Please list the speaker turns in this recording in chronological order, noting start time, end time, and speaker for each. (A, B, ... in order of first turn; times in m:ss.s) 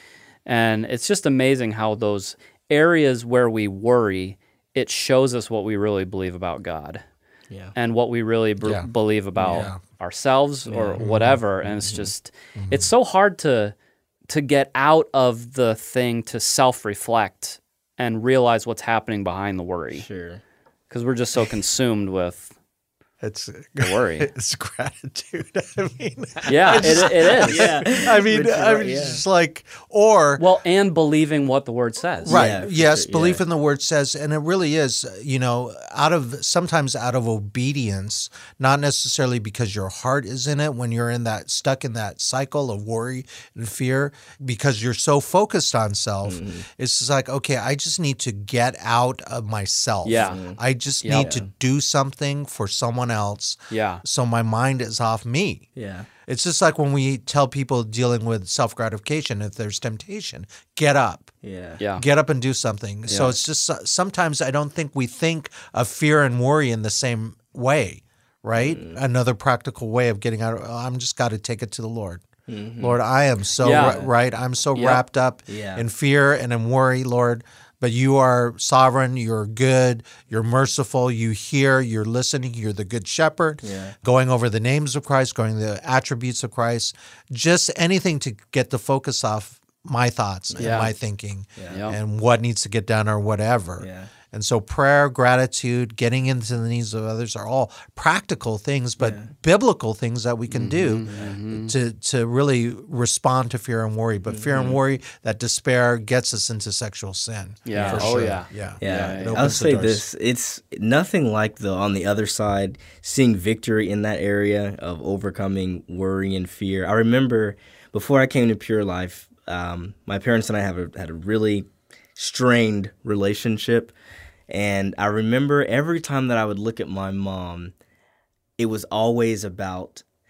0:00.4-0:07.0 A
0:07.7-0:13.7 A
0:08.6-0:09.8 B
0:10.7-0:11.0 C
0:11.0-0:11.4 B
0:11.8-0:12.1 C
0:12.6-0:12.9 B
0:14.3-0:20.0 A
0:19.9-0:20.4 C
0:20.9-0:22.5 A
0:23.2-0:30.4 B
0:23.8-0:24.3 A
0:26.4-0:27.6 A
0:26.7-0:29.2 C
0:30.4-0:32.4 A
0:32.2-0:55.6 B
0:32.3-0:33.4 C
0:46.2-0:46.6 C
0:50.0-0:50.4 A
0:50.1-0:50.6 C
0:51.0-0:51.3 A
0:51.1-0:51.4 C
0:53.7-0:54.0 A
0:55.8-0:56.1 C
0:56.3-1:01.3 B
1:01.4-1:01.8 C
1:01.8-1:02.0 A
1:02.0-1:12.2 B
1:03.1-1:03.3 A
1:08.6-1:09.0 C
1:12.5-1:13.0 C
1:12.8-1:50.0 B
1:13.6-1:14.0 A
1:13.7-1:14.1 C
1:14.7-1:15.0 A
1:15.5-1:15.8 C
1:23.6-1:24.0 C
1:30.5-1:30.8 C
1:30.6-1:30.9 A
1:31.7-1:32.0 A
1:33.8-1:34.1 C
1:39.0-1:39.3 C
1:40.6-1:41.3 C
1:40.7-1:41.7 A
1:44.3-1:44.8 C
1:47.6-1:49.5 A
1:47.7-2:03.9 C
2:04.5-2:07.7 C
2:08.6-2:10.0 C